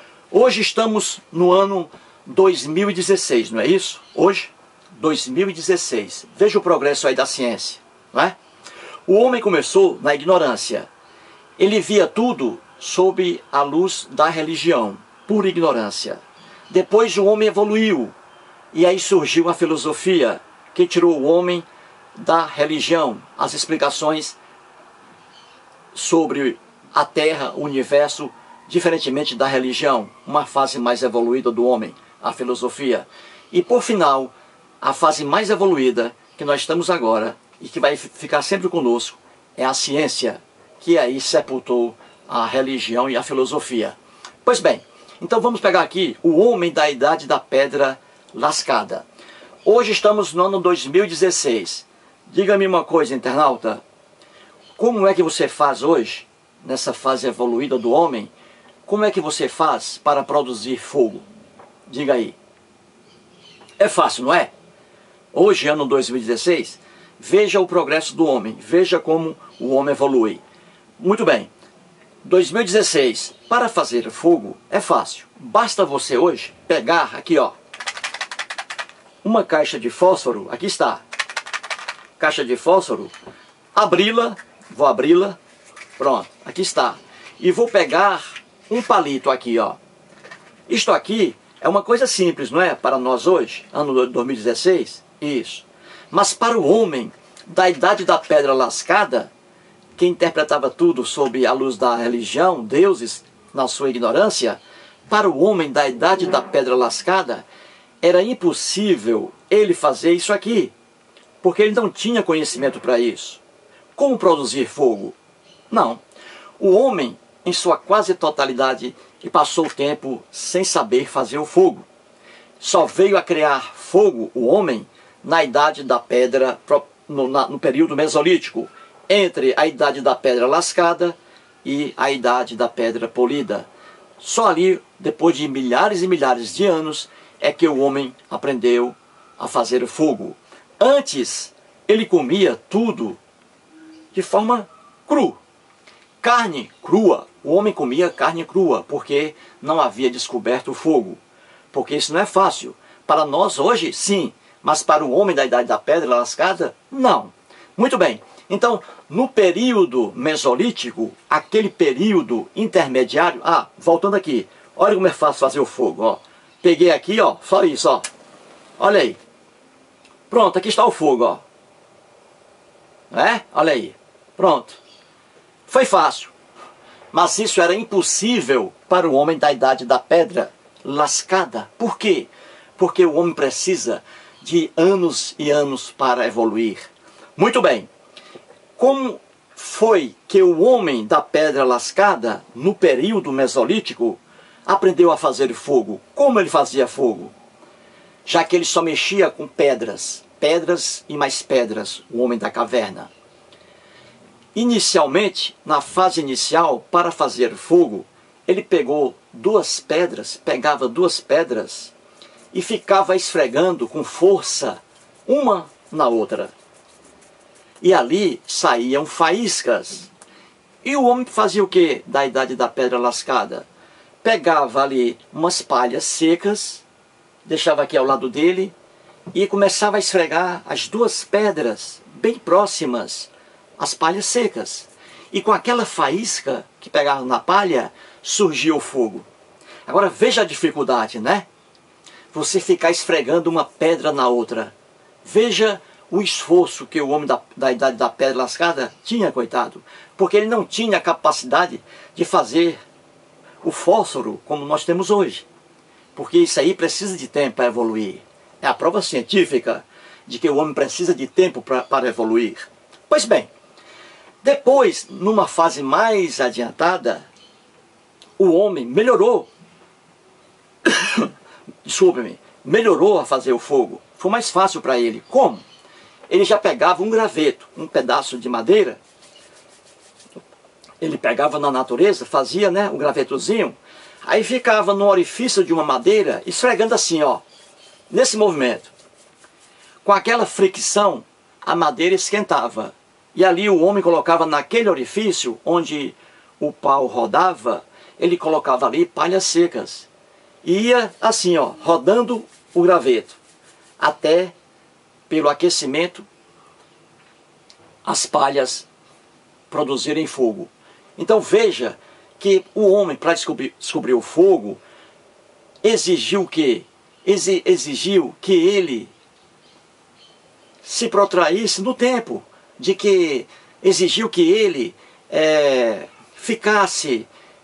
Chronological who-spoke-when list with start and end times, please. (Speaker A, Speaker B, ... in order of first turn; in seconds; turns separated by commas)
Speaker A: 0.3-8.4, Speaker A: 9.1-10.9, Speaker A: 11.6-18.1, Speaker A: 18.7-21.6, Speaker A: 22.2-24.4, Speaker A: 25.9-49.0, Speaker A: 49.6-53.8, Speaker A: 54.8-58.3, Speaker A: 58.9-61.2, Speaker A: 61.9-62.4, Speaker A: 63.8-64.5, Speaker A: 65.3-70.4, Speaker A: 71.0-71.5, Speaker A: 72.2-77.5, Speaker A: 79.2-81.0, Speaker A: 82.2-83.1, Speaker A: 83.7-85.4, Speaker A: 86.0-89.8, Speaker A: 90.7-99.3, Speaker A: 100.0-107.4, Speaker A: 108.0-110.7, Speaker A: 111.4-113.4, Speaker A: 114.0-115.2, Speaker A: 115.7-116.0, Speaker A: 116.6-121.9, Speaker A: 122.6-133.7, Speaker A: 134.2-143.2, Speaker A: 144.1-145.4, Speaker A: 146.2-151.2, Speaker A: 151.7-168.1, Speaker A: 168.8-169.2, Speaker A: 170.3-171.4, Speaker A: 173.1-174.8, Speaker A: 175.7-176.3, Speaker A: 177.1-187.9, Speaker A: 188.8-197.3, Speaker A: 198.2-203.1, Speaker A: 204.5-211.9, Speaker A: 212.5-216.5, Speaker A: 217.8-220.1, Speaker A: 220.8-223.7, Speaker A: 224.2-226.8, Speaker A: 227.4-228.7, Speaker A: 229.3-239.2, Speaker A: 239.9-241.4, Speaker A: 242.3-244.7, Speaker A: 245.2-252.8, Speaker A: 253.6-255.4, Speaker A: 256.1-263.5, Speaker A: 264.4-267.2, Speaker A: 268.4-269.5, Speaker A: 270.8-271.3, Speaker A: 271.8-275.6, Speaker A: 276.3-279.0, Speaker A: 281.0-287.4, Speaker A: 288.1-288.9, Speaker A: 290.0-300.1, Speaker A: 300.6-303.4, Speaker A: 304.0-304.5, Speaker A: 305.3-306.2, Speaker A: 308.0-308.9, Speaker A: 309.7-314.8, Speaker A: 315.8-319.1, Speaker A: 320.8-327.3